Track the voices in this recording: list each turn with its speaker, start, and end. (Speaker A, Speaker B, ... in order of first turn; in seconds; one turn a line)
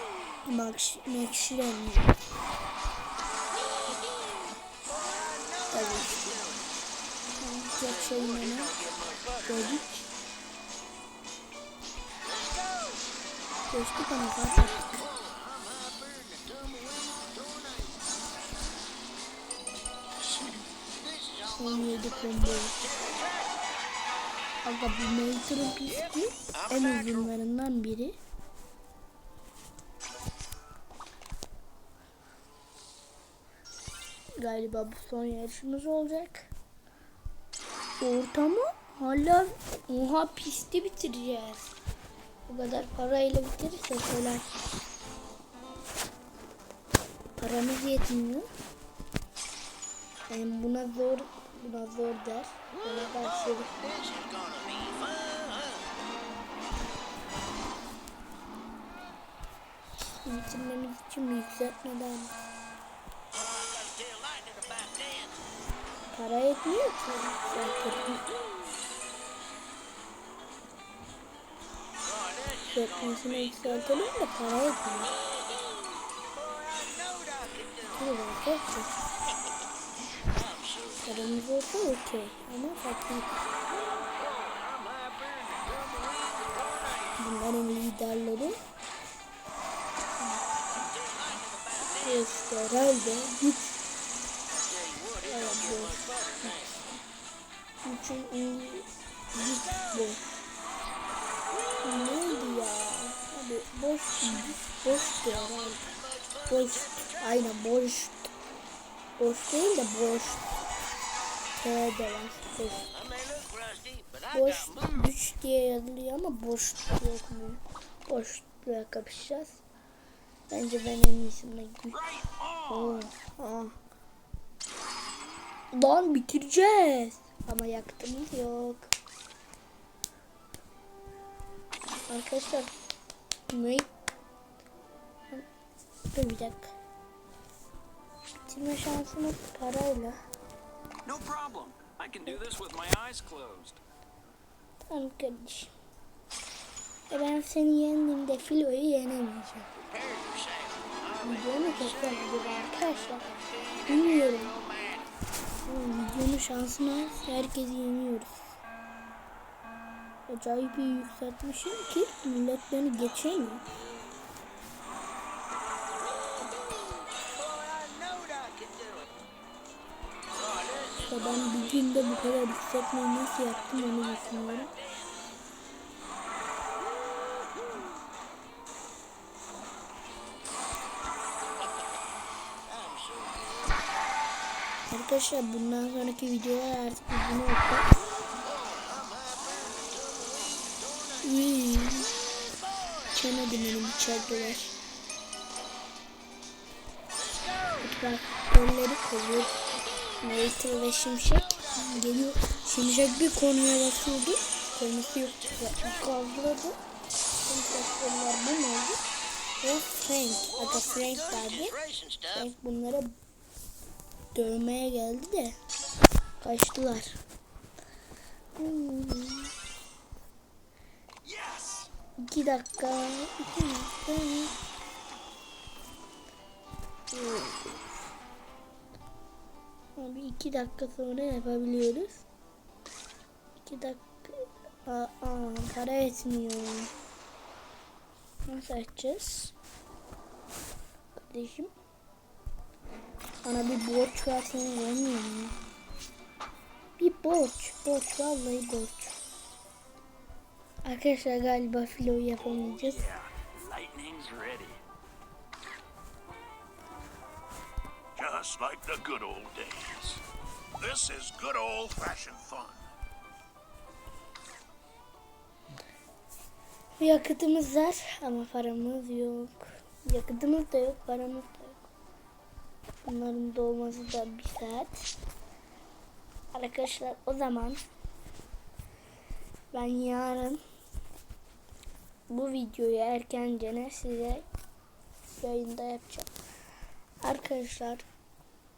Speaker A: 0.5-2.1
Speaker B: 4.9-6.7
Speaker A: 5.7-6.2
Speaker A: 7.4-8.7
Speaker B: 7.8-9.8
Speaker A: 9.4-10.0
Speaker B: 12.2-13.0
Speaker A: 13.7-15.0
Speaker B: 14.6-18.0
Speaker B: 20.8-23.6
Speaker A: 21.6-22.7
Speaker A: 24.6-28.2
Speaker B: 25.9-27.3
Speaker A: 34.4-36.5
Speaker A: 38.0-41.7
Speaker A: 42.5-44.5
Speaker A: 47.4-48.5
Speaker A: 50.3-53.7
Speaker B: 53.0-55.9
Speaker A: 60.0-62.3
Speaker B: 63.3-65.4
Speaker A: 66.1-68.3
Speaker B: 72.0-74.0
Speaker A: 72.7-75.1
Speaker B: 76.3-78.0
Speaker A: 78.0-78.9
Speaker B: 80.3-81.1
Speaker A: 81.0-83.3
Speaker B: 83.7-87.2
Speaker A: 87.2-88.6
Speaker B: 90.5-92.3
Speaker A: 92.0-93.6
Speaker B: 94.5-96.8
Speaker A: 95.2-96.1
Speaker A: 97.8-100.2
Speaker A: 101.8-105.8
Speaker B: 105.5-107.2
Speaker A: 106.5-108.3
Speaker A: 109.2-110.5
Speaker A: 111.5-112.9
Speaker B: 112.9-115.1
Speaker A: 114.3-119.6
Speaker A: 120.5-122.0
Speaker C: 121.9-123.1
Speaker A: 122.7-123.8
Speaker A: 125.7-128.9
Speaker A: 132.1-132.7
Speaker A: 133.5-133.9
Speaker A: 136.1-136.7
Speaker A: 138.5-140.2
Speaker C: 141.0-143.8
Speaker A: 144.9-145.7
Speaker A: 147.1-149.7
Speaker B: 149.8-152.5
Speaker A: 151.2-153.3
Speaker B: 153.6-155.1
Speaker A: 153.9-154.6
Speaker A: 155.7-158.6
Speaker A: 160.3-163.7
Speaker B: 167.2-169.1
Speaker B: 170.3-171.9
Speaker A: 171.1-174.7
Speaker B: 173.9-175.1
Speaker B: 182.7-183.8
Speaker A: 184.9-187.9
Speaker B: 188.4-191.3
Speaker A: 191.2-192.1
Speaker B: 192.2-194.2
Speaker A: 193.1-194.7
Speaker B: 197.1-197.8
Speaker A: 197.8-199.6
Speaker A: 200.2-206.8
Speaker B: 201.5-202.0
Speaker B: 205.0-206.0
Speaker A: 207.4-209.0
Speaker A: 209.6-211.8
Speaker B: 210.5-212.5
Speaker A: 212.3-213.1
Speaker A: 214.3-215.6
Speaker A: 216.4-217.2
Speaker A: 218.6-219.5
Speaker C: 221.2-221.9
Speaker A: 222.2-224.5
Speaker A: 227.1-228.0
Speaker A: 229.9-232.2
Speaker A: 233.6-236.9
Speaker A: 238.5-239.5
Speaker A: 241.1-241.7
Speaker A: 243.4-245.6
Speaker A: 247.0-249.2
Speaker A: 250.8-253.1
Speaker C: 252.4-254.8
Speaker D: 258.2-259.9
Speaker C: 258.4-260.2
Speaker D: 260.8-262.8
Speaker C: 261.6-262.6
Speaker A: 267.0-271.9
Speaker A: 273.0-275.1
Speaker A: 276.5-277.8
Speaker A: 279.7-280.6
Speaker A: 282.3-284.4
Speaker A: 285.4-286.3
Speaker A: 287.2-288.0